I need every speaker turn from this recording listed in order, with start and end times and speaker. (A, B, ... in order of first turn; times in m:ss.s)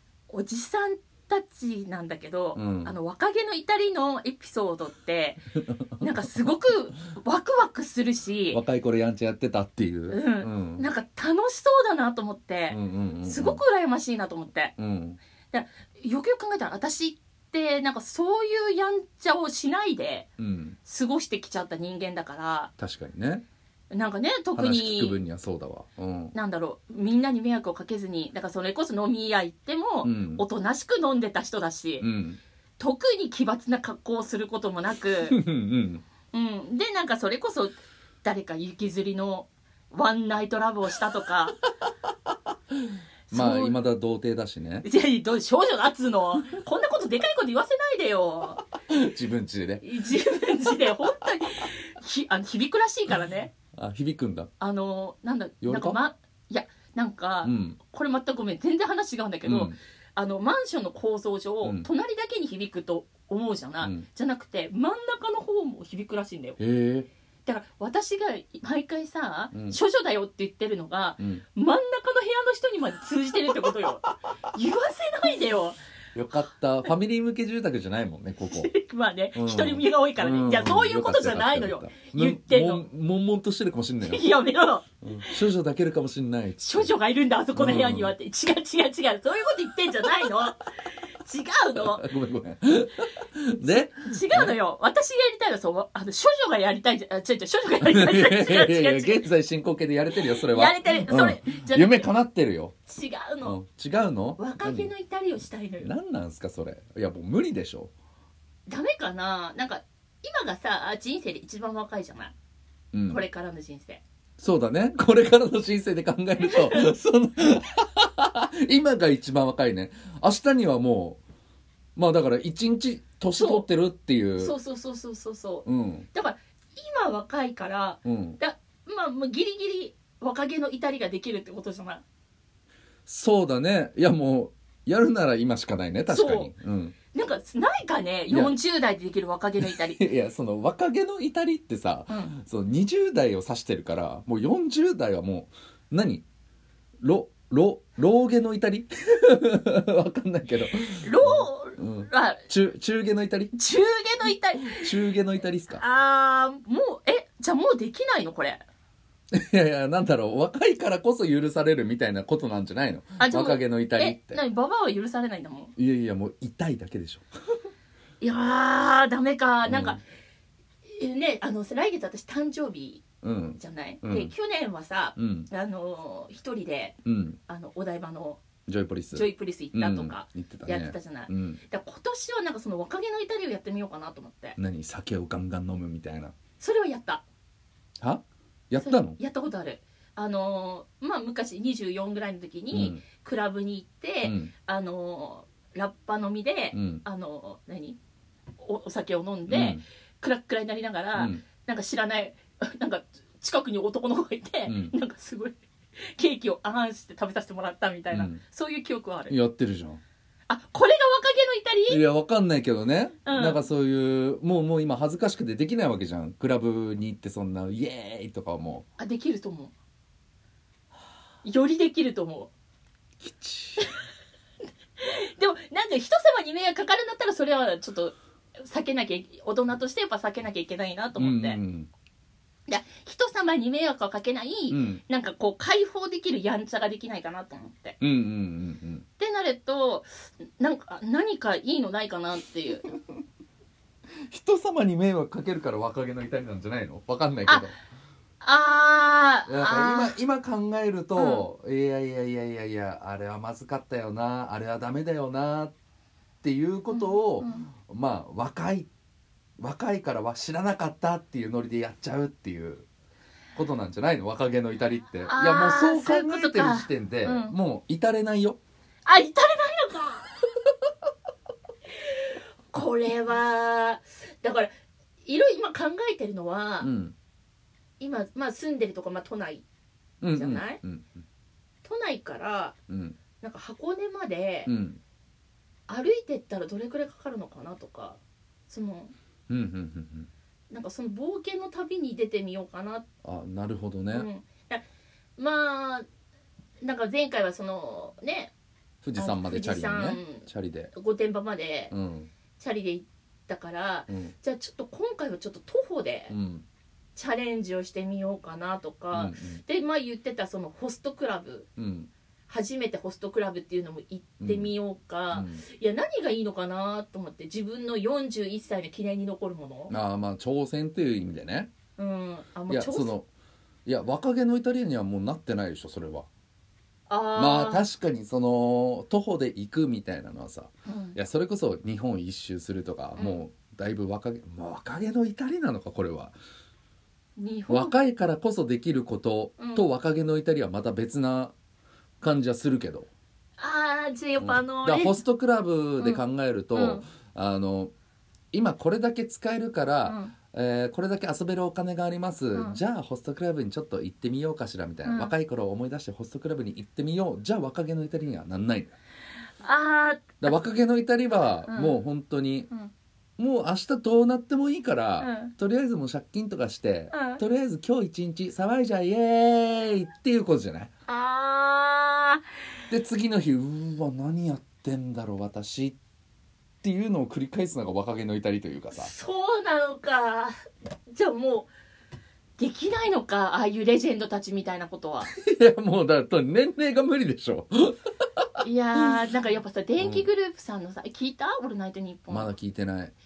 0:00.3-0:05.4 A
0:02.5-0:03.0 B
0:06.0-0:08.6 A
0:08.5-0:10.8 B
0:10.1-0:14.7 A
0:12.7-0:13.6 B
0:14.8-0:15.2 B
0:15.5-0:20.3 A
0:20.4-0:20.8 B
0:20.8-0:22.7 A
0:22.8-0:23.4 B
0:23.9-0:25.2 A
0:24.6-0:26.3 B
0:26.3-0:32.0 A
0:30.0-0:30.4 B
0:32.0-0:32.4 B
0:32.8-0:35.4 A
0:35.3-0:36.0 B
0:36.3-0:41.6 A
0:43.3-0:43.8 A
0:43.3-0:44.9 B
0:44.8-0:48.6 A
0:48.9-0:49.8 B
0:49.8-0:53.5 A
0:53.7-0:54.5 B
0:54.6-1:06.6 A
0:55.6-0:56.0 B
0:57.4-0:57.8 B
0:59.4-0:59.8 B
1:01.6-1:01.9 B
1:03.8-1:04.0 B
1:06.6-1:07.1 B
1:07.4-1:15.8 A
1:09.5-1:09.8 B
1:16.1-1:18.7 B
1:18.4-1:22.8 A
1:19.3-1:24.2 B
1:24.0-1:25.4 A
1:25.0-1:26.9 B
1:26.6-1:30.6 A
1:27.5-1:28.1 B
1:31.2-1:32.0 A
1:31.8-1:34.5 B
1:34.0-1:39.2 A
1:37.8-1:42.7 B
1:40.1-1:42.1 A
1:42.9-1:43.6 A
1:43.4-1:44.9 B
1:44.4-1:45.9 A
1:45.8-1:47.9 B
1:48.7-1:52.3 A
1:52.9-1:53.2 B
1:53.1-1:54.0 A
1:54.4-2:01.2 B
1:56.4-1:56.9 A
2:02.0-2:04.6 B
2:03.4-2:03.6 A
2:04.4-2:12.0 A
2:05.6-2:06.1 B
2:08.0-2:08.4 B
2:13.1-2:17.0 B
2:16.1-2:16.5 A
2:17.1-2:20.1 A
2:18.3-2:18.6 B
2:19.6-2:26.2 B
2:22.1-2:22.4 A
2:27.0-2:33.5 B
2:31.0-2:32.4 A
2:33.5-2:35.1 A
2:34.7-2:35.8 B
2:35.7-2:38.6 A
2:39.3-2:44.4 B
2:43.2-2:45.7 A
2:45.8-2:47.2 B
2:48.2-2:50.0 A
2:49.6-2:50.0 B
2:50.8-2:53.0 A
2:53.2-2:54.3 B
2:53.6-2:58.4 A
2:55.2-2:55.5 B
2:57.0-2:57.4 B
2:58.7-3:01.6 B
2:59.1-3:04.6 A
3:04.6-3:06.3 B
3:06.6-3:07.2 A
3:08.0-3:09.2 B
3:08.8-3:18.0 A
3:12.7-3:13.0 B
3:14.2-3:14.5 B
3:16.7-3:17.0 B
3:18.6-3:25.6 A
3:19.5-3:19.8 B
3:21.1-3:21.4 B
3:24.7-3:24.9 B
3:26.1-3:29.3 A
3:28.1-3:28.4 B
3:29.3-3:30.0 B
3:30.5-3:32.0 A
3:31.9-3:38.8 B
3:33.2-3:33.6 A
3:39.0-3:39.7 A
3:41.4-3:42.5 A
3:43.2-3:43.9 B
3:45.0-3:51.6 A
3:51.2-3:51.9 B
3:52.7-3:58.0 A
3:54.7-3:55.0 B
3:58.0-3:59.0 B
3:59.2-4:02.8 A
4:04.3-4:07.7 B
4:08.4-4:10.1 A
4:09.5-4:15.7 B
4:11.2-4:11.5 A
4:16.4-4:18.9 B
4:16.9-4:17.7 A
4:19.6-4:22.8 B
4:23.5-4:28.6 B
4:25.2-4:27.5 A
4:29.0-4:30.3 A
4:32.0-4:34.7 A
4:35.2-4:36.9 A
4:36.8-4:37.1 B
4:38.0-4:39.6 A
4:40.2-4:41.0 B
4:40.3-4:40.8 A
4:41.8-4:42.7 A
4:42.9-4:43.2 B
4:43.4-4:44.7 A
4:44.6-4:45.0 B
4:45.9-4:49.1 A
4:49.5-4:50.3 B
4:50.7-4:53.0 A
4:53.2-4:54.3 B
4:54.1-4:54.8 A
4:55.4-4:56.0 A
4:56.8-4:58.5 A
4:59.0-5:00.9 B
4:59.1-5:01.9 A
5:01.9-5:02.3 B
5:02.6-5:06.3 A
5:06.3-5:06.6 B
5:07.2-5:11.7 A
5:09.1-5:09.6 B
5:11.8-5:12.1 B
5:12.5-5:19.9 A
5:14.4-5:14.7 B
5:15.3-5:15.6 B
5:19.9-5:21.7 B
5:22.0-5:23.1 A
5:22.7-5:23.3 B
5:23.8-5:26.3 B
5:27.1-5:27.8 A
5:27.3-5:36.3 B
5:30.8-5:31.2 A
5:33.2-5:33.4 A
5:37.4-5:37.9 A
5:37.7-5:41.5 B
5:39.6-5:39.9 A
5:42.2-5:43.1 B
5:43.6-5:45.2 A
5:44.4-5:47.9 B
5:46.7-5:47.0 A
5:48.5-5:58.9 B
5:50.0-5:50.3 A
5:52.5-5:52.8 A
5:55.0-5:55.3 A
5:59.6-6:00.5 A
6:00.4-6:02.7 B
6:01.7-6:02.0 A
6:03.4-6:10.9 B
6:05.2-6:05.5 A
6:07.1-6:07.4 A
6:11.1-6:12.4 A
6:12.9-6:16.0 B
6:16.8-6:19.1 B
6:18.9-6:20.5 A
6:21.1-6:21.7 A
6:22.6-6:25.3 A
6:25.4-6:28.4 B
6:28.6-6:32.5 A
6:30.0-6:30.3 B
6:32.3-6:33.1 B